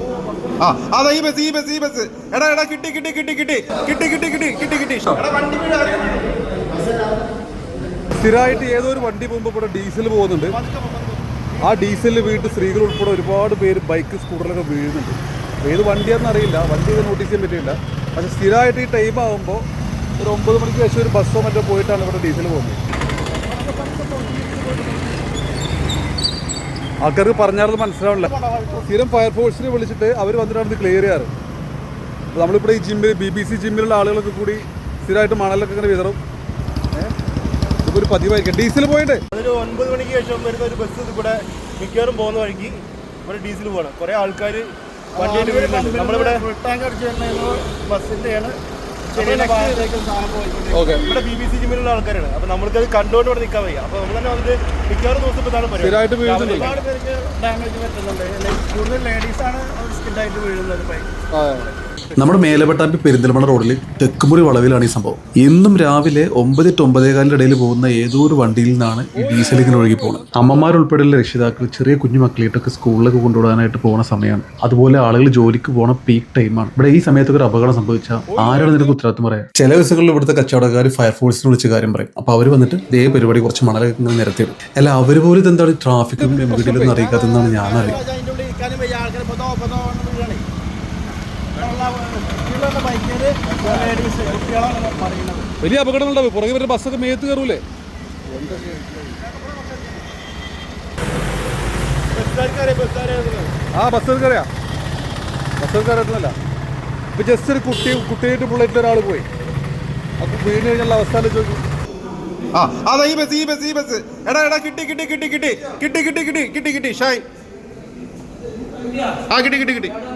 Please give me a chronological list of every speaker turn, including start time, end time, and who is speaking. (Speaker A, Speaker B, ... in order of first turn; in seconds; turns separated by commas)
Speaker A: 0.6-5.2, Speaker B: 5.2-6.2, Speaker C: 8.2-10.6, Speaker B: 10.5-12.9, Speaker C: 11.6-19.6, Speaker C: 20.2-22.8, Speaker B: 23.6-25.0, Speaker C: 27.0-28.3, Speaker B: 28.1-28.9, Speaker C: 28.8-31.3, Speaker C: 32.3-36.2, Speaker C: 37.8-39.2, Speaker B: 39.3-48.5, Speaker C: 45.2-46.0, Speaker A: 46.0-46.4, Speaker B: 49.1-61.7, Speaker A: 49.1-49.8, Speaker C: 50.7-51.0, Speaker C: 55.7-56.8, Speaker C: 61.3-62.6, Speaker D: 62.1-88.0, Speaker C: 69.1-70.7, Speaker C: 78.3-78.9, Speaker C: 86.2-87.1, Speaker B: 87.1-90.4, Speaker B: 91.5-95.5, Speaker C: 95.6-97.6, Speaker C: 98.3-99.1, Speaker B: 99.0-100.0, Speaker B: 102.1-103.5, Speaker C: 103.7-104.5, Speaker C: 105.6-106.3, Speaker C: 107.1-109.2, Speaker C: 110.2-111.6, Speaker A: 112.5-117.2, Speaker A: 119.3-119.9